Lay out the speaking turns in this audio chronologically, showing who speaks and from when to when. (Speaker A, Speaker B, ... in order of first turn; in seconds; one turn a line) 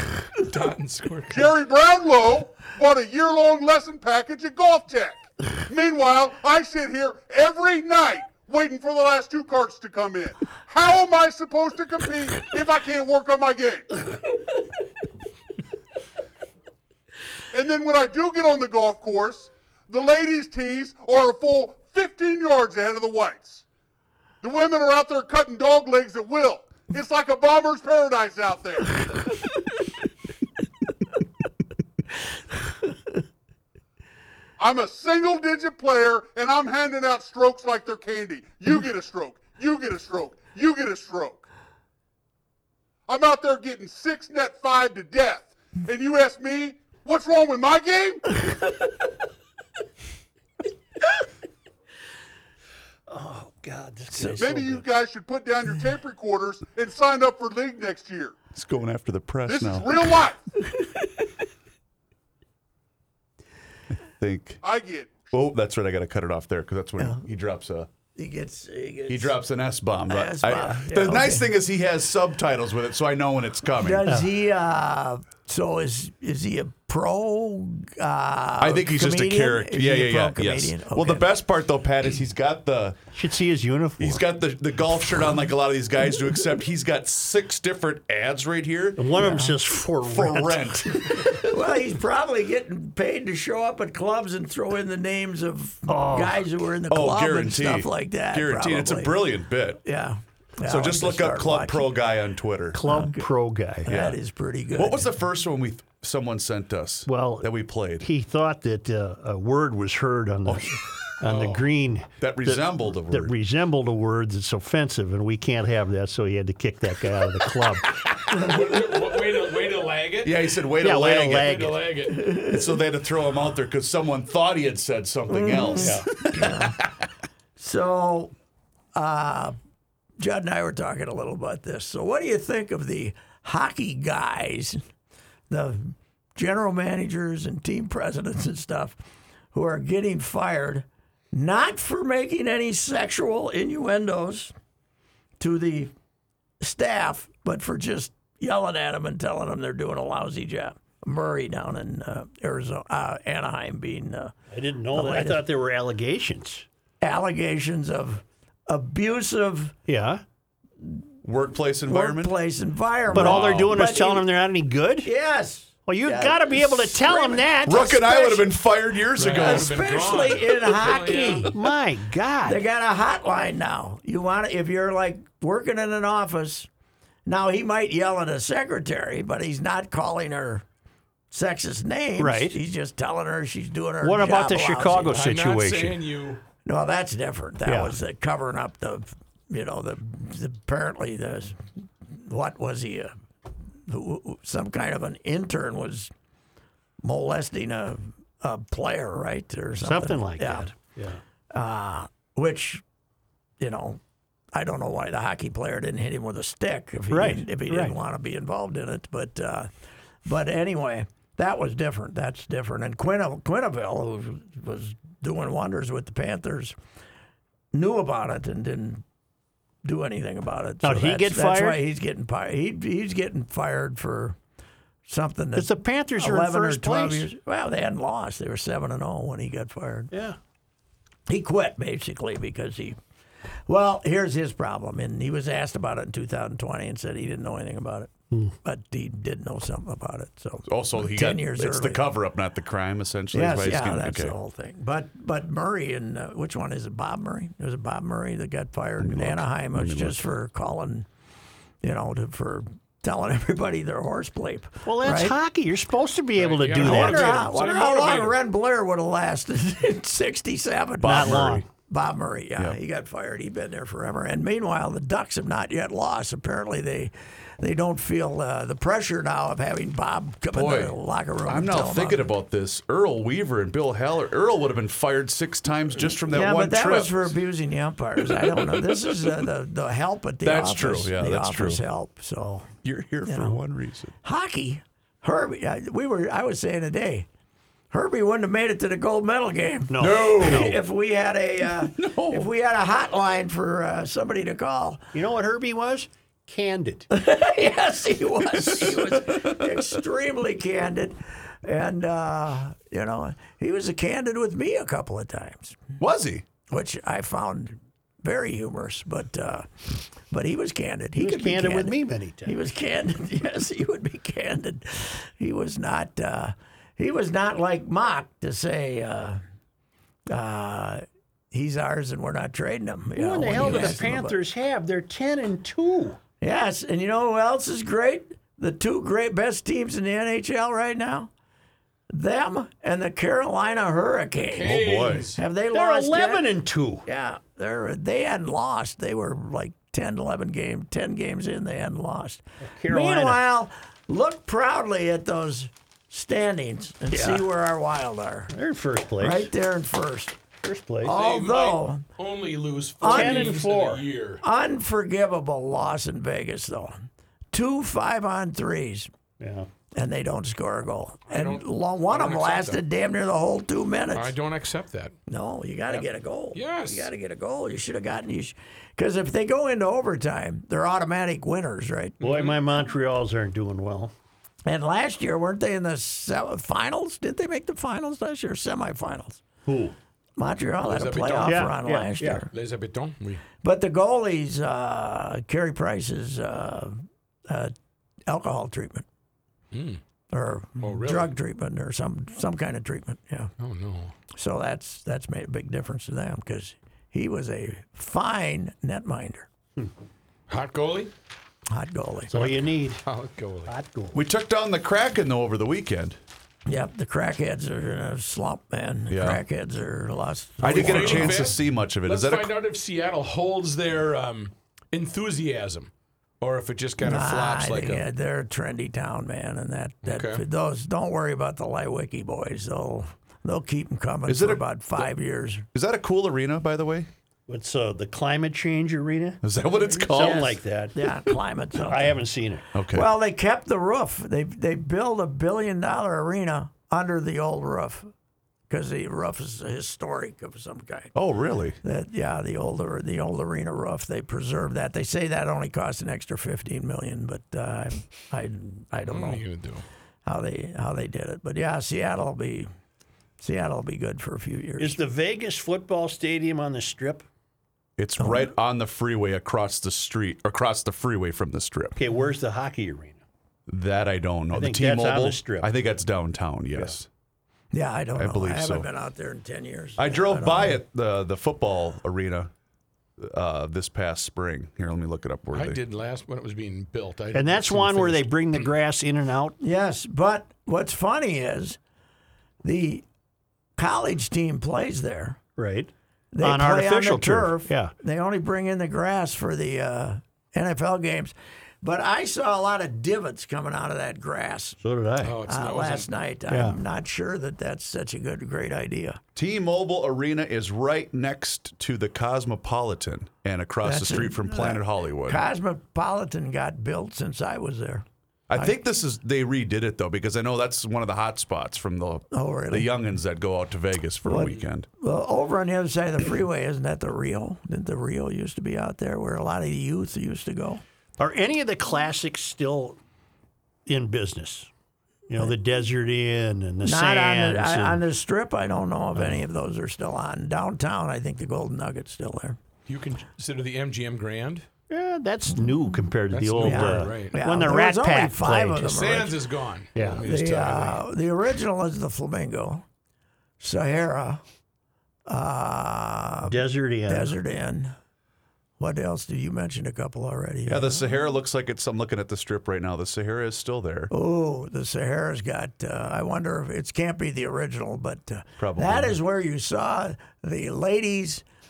Speaker A: 0.3-1.5
Speaker B: 1.3-14.0
Speaker B: 17.5-23.6
Speaker B: 24.4-29.0
Speaker B: 34.6-41.4
Speaker B: 43.1-48.2
Speaker C: 53.1-54.4
Speaker D: 54.1-54.9
Speaker B: 54.4-58.4
Speaker E: 58.5-59.9
Speaker B: 59.5-60.4
Speaker E: 64.2-64.6
Speaker B: 64.6-65.3
Speaker E: 65.3-67.9
Speaker D: 68.1-69.3
Speaker E: 69.1-74.0
Speaker D: 70.1-71.5
Speaker D: 73.8-81.3
Speaker E: 78.6-83.0
Speaker C: 83.1-84.2
Speaker E: 84.0-89.2
Speaker C: 89.0-90.8
Speaker D: 89.2-89.6
Speaker E: 90.0-91.2
Speaker D: 91.1-99.2
Speaker C: 95.9-96.4
Speaker E: 96.9-99.8
Speaker D: 99.8-101.9
Speaker E: 100.6-102.8
Speaker C: 102.7-104.0
Speaker D: 102.8-103.2
Speaker D: 103.8-105.1
Speaker E: 103.9-104.2
Speaker E: 104.7-108.0
Speaker C: 107.1-107.5
Speaker C: 108.0-117.8
Speaker E: 110.5-110.8
Speaker A: 111.2-111.6
Speaker E: 112.2-113.3
Speaker A: 118.3-120.3
Speaker E: 120.2-121.7
Speaker C: 120.8-121.8
Speaker A: 121.4-122.3
Speaker D: 122.1-122.6
Speaker E: 122.3-126.7
Speaker D: 125.3-126.8
Speaker C: 125.7-126.1
Speaker D: 127.6-128.3
Speaker D: 128.9-129.6
Speaker D: 130.2-134.8
Speaker D: 135.5-139.0
Speaker D: 139.5-144.5
Speaker D: 145.4-145.9
Speaker D: 146.6-154.3
Speaker C: 154.5-156.6
Speaker D: 154.9-155.4
Speaker D: 157.0-159.8
Speaker C: 159.9-160.2
Speaker E: 161.2-162.3
Speaker D: 161.9-164.3
Speaker E: 163.1-163.6
Speaker C: 163.1-165.1
Speaker D: 165.0-168.5
Speaker C: 165.8-167.9
Speaker E: 167.6-169.8
Speaker A: 169.2-171.5
Speaker D: 169.3-171.6
Speaker C: 171.5-172.6
Speaker D: 172.4-176.7
Speaker D: 177.2-180.6
Speaker D: 181.3-185.1
Speaker C: 182.2-182.6
Speaker C: 184.0-186.0
Speaker A: 185.1-186.4
Speaker D: 186.6-191.6
Speaker C: 187.7-187.9
Speaker D: 192.1-193.1
Speaker D: 193.8-196.1
Speaker D: 197.0-200.7
Speaker C: 199.8-201.2
Speaker D: 201.5-202.8
Speaker D: 203.6-204.0
Speaker D: 204.5-209.7
Speaker C: 207.1-208.0
Speaker D: 210.2-216.7
Speaker D: 217.7-219.0
Speaker D: 219.8-224.3
Speaker C: 220.8-221.8
Speaker D: 225.1-230.1
Speaker C: 225.5-227.3
Speaker C: 230.1-230.4
Speaker D: 231.3-233.0
Speaker D: 233.7-238.1
Speaker D: 238.6-242.0
Speaker E: 240.7-244.3
Speaker D: 243.3-251.1
Speaker E: 249.0-250.2
Speaker D: 251.8-255.3
Speaker C: 254.8-257.5
Speaker A: 256.4-258.4
Speaker D: 256.8-272.2
Speaker E: 261.0-261.6
Speaker C: 261.0-261.6
Speaker E: 270.5-277.3
Speaker D: 276.2-282.7
Speaker E: 280.4-281.8
Speaker E: 282.8-284.1
Speaker D: 283.2-283.6
Speaker D: 284.2-287.3
Speaker D: 287.9-295.1
Speaker C: 289.9-290.8
Speaker E: 290.0-290.7
Speaker E: 292.0-292.5
Speaker C: 295.1-297.1
Speaker D: 297.1-305.8
Speaker E: 298.6-299.8
Speaker E: 306.0-306.4
Speaker D: 306.7-309.7
Speaker D: 310.3-319.4
Speaker C: 311.2-312.6
Speaker D: 320.3-324.4
Speaker C: 323.1-326.2
Speaker A: 323.6-324.0
Speaker D: 326.4-331.3
Speaker D: 332.1-334.8
Speaker A: 334.5-335.4
Speaker E: 334.6-335.3
Speaker D: 335.4-336.5
Speaker C: 335.7-337.1
Speaker D: 337.1-348.5
Speaker C: 342.6-343.4
Speaker C: 347.1-347.5
Speaker C: 348.5-349.5
Speaker D: 349.2-350.4
Speaker C: 350.6-351.1
Speaker D: 351.0-352.0
Speaker A: 351.1-354.4
Speaker D: 353.0-353.6
Speaker C: 353.1-354.1
Speaker D: 354.4-359.1
Speaker C: 359.4-359.7
Speaker D: 359.9-364.3
Speaker A: 361.3-362.8
Speaker A: 364.1-365.1
Speaker D: 365.3-372.2
Speaker A: 365.9-367.1
Speaker A: 372.2-372.6
Speaker C: 372.2-374.1
Speaker D: 374.6-379.4
Speaker C: 379.6-379.9
Speaker D: 380.4-382.5
Speaker A: 380.8-381.8
Speaker C: 381.4-382.4
Speaker A: 382.5-383.4
Speaker D: 383.6-387.7
Speaker D: 388.3-389.1
Speaker A: 389.7-390.0
Speaker D: 390.3-393.5
Speaker A: 390.8-391.3
Speaker A: 393.6-394.1
Speaker D: 394.3-399.5
Speaker A: 400.5-401.1
Speaker D: 401.7-402.6
Speaker C: 402.3-403.0
Speaker A: 403.0-403.7
Speaker C: 403.6-404.2
Speaker E: 404.1-406.2
Speaker D: 406.6-411.5
Speaker E: 409.1-409.4
Speaker E: 410.6-412.5
Speaker A: 410.6-415.9
Speaker A: 416.4-418.0
Speaker D: 417.0-425.6
Speaker A: 420.0-420.4
Speaker E: 424.3-425.1
Speaker E: 425.7-427.1
Speaker C: 427.5-429.4
Speaker E: 429.4-430.5
Speaker C: 430.1-431.1
Speaker D: 430.1-432.2
Speaker C: 431.7-432.7
Speaker E: 432.7-433.1
Speaker D: 432.9-438.1
Speaker D: 438.7-441.1
Speaker E: 441.1-441.8
Speaker D: 441.8-449.4
Speaker A: 449.1-449.8
Speaker D: 450.2-452.7
Speaker D: 453.4-455.0
Speaker C: 454.8-457.2
Speaker E: 458.0-462.0
Speaker D: 458.2-458.5
Speaker C: 461.9-463.2
Speaker E: 463.7-467.1
Speaker C: 464.5-465.7
Speaker D: 467.7-470.8
Speaker E: 468.1-468.9
Speaker E: 470.0-472.5
Speaker E: 473.2-475.8
Speaker A: 475.5-478.6
Speaker C: 477.3-479.6
Speaker D: 479.6-481.8
Speaker D: 482.6-483.0
Speaker D: 483.8-485.4
Speaker C: 485.6-487.9
Speaker D: 486.3-494.8
Speaker C: 494.8-495.4
Speaker A: 495.2-496.1
Speaker D: 495.4-499.2
Speaker C: 496.5-496.8
Speaker E: 499.3-505.4
Speaker D: 503.8-508.0
Speaker E: 508.5-514.9
Speaker D: 512.3-512.9
Speaker D: 514.2-520.8
Speaker C: 521.2-523.0
Speaker C: 523.9-524.7
Speaker C: 525.3-528.0
Speaker D: 526.8-532.6
Speaker C: 529.1-529.4
Speaker A: 532.9-534.6
Speaker C: 534.9-538.8
Speaker A: 536.3-537.4
Speaker D: 536.6-539.3
Speaker A: 538.8-541.0
Speaker C: 539.9-540.2
Speaker D: 540.1-542.8
Speaker D: 543.6-544.4
Speaker D: 545.3-547.9
Speaker C: 546.5-547.3
Speaker D: 548.8-551.0
Speaker E: 550.7-554.1
Speaker D: 554.1-561.4
Speaker E: 558.6-559.2